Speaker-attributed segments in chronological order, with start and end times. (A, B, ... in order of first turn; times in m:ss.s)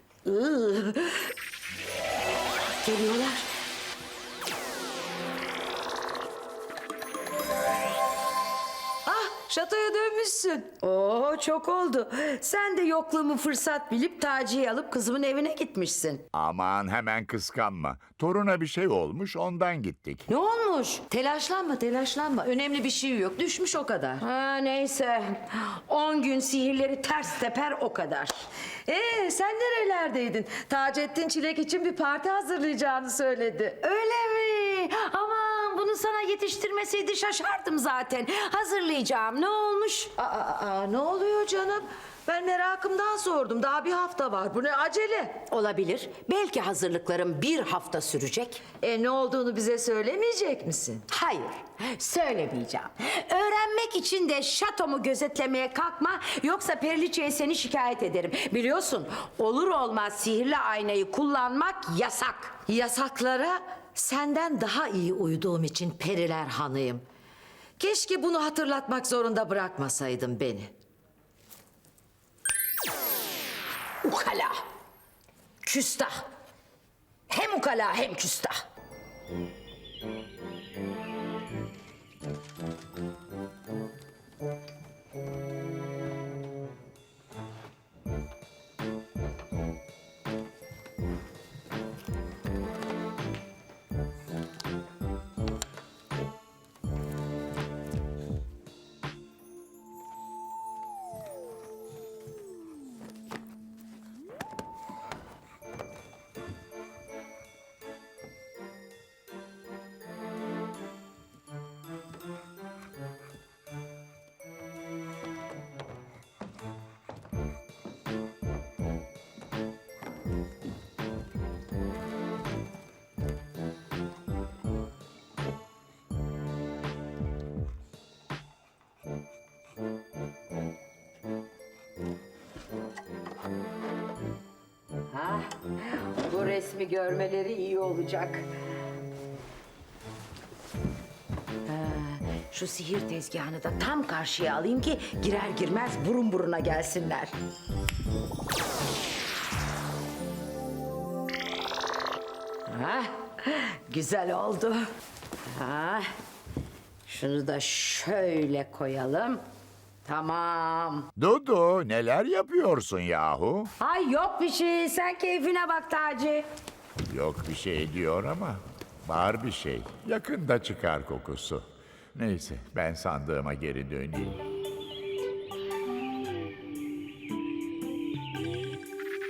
0:00.2-0:01.3 A
0:02.8-0:03.5 A
0:09.0-0:10.7 B
0:10.8-0:16.2 A
0:16.3-0:20.2 C
0:20.3-0:21.1 A
0:21.1-0:24.2 B
0:24.2-0:28.4 A
0:28.9-0:33.8 B
0:33.8-0:40.1 A
0:40.2-0:45.4 B
0:45.4-0:48.6 A
0:48.8-0:51.0 B
0:51.1-1:02.6 A
1:02.7-1:07.0 B
1:07.8-1:10.7 B
1:14.0-1:14.6 A
1:15.6-1:16.2 A
1:17.3-1:18.6 A
2:15.1-2:18.5 A
2:21.6-2:27.3 A
2:32.7-2:34.8 A
2:35.4-2:36.1 A
2:37.0-2:39.4 A
2:40.0-2:41.1 A
2:41.2-2:43.7 C
2:43.8-2:46.5 A
2:47.1-2:54.4 C